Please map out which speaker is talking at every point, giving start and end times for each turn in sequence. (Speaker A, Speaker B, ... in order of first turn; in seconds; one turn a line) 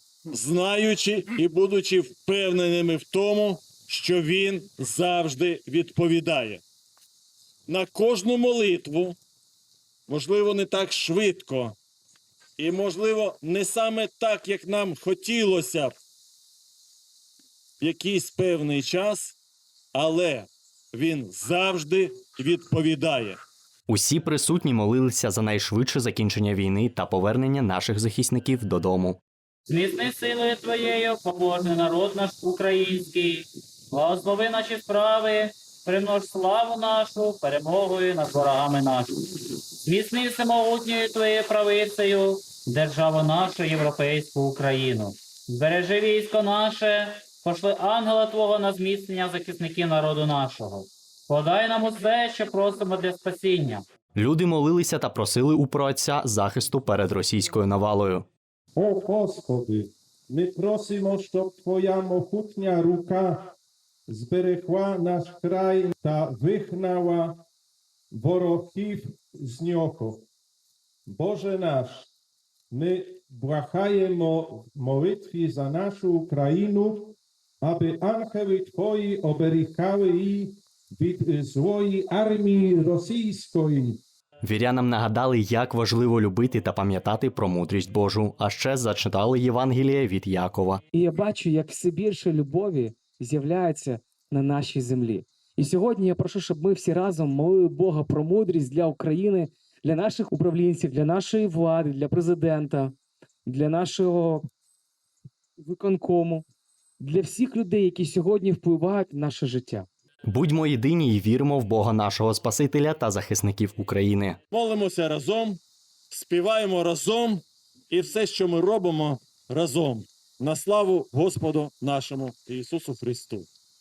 Speaker A: 0.3-6.6
Speaker A: 7.7-9.2
Speaker A: 10.1-11.7
Speaker A: 12.6-15.9
Speaker A: 17.8-19.4
Speaker A: 19.9-23.4
Speaker B: 23.9-29.2
Speaker C: 29.7-53.8
Speaker B: 54.1-58.2
Speaker D: 58.8-63.5
Speaker D: 64.1-67.4
Speaker D: 68.1-70.2
Speaker D: 71.1-72.1
Speaker D: 72.7-84.0
Speaker B: 84.4-90.8
Speaker E: 90.9-102.9
Speaker E: 103.5-104.5
Speaker E: 105.6-106.4
Speaker E: 107.0-109.9
Speaker B: 110.2-114.4
Speaker A: 114.5-115.6
Speaker A: 116.1-123.5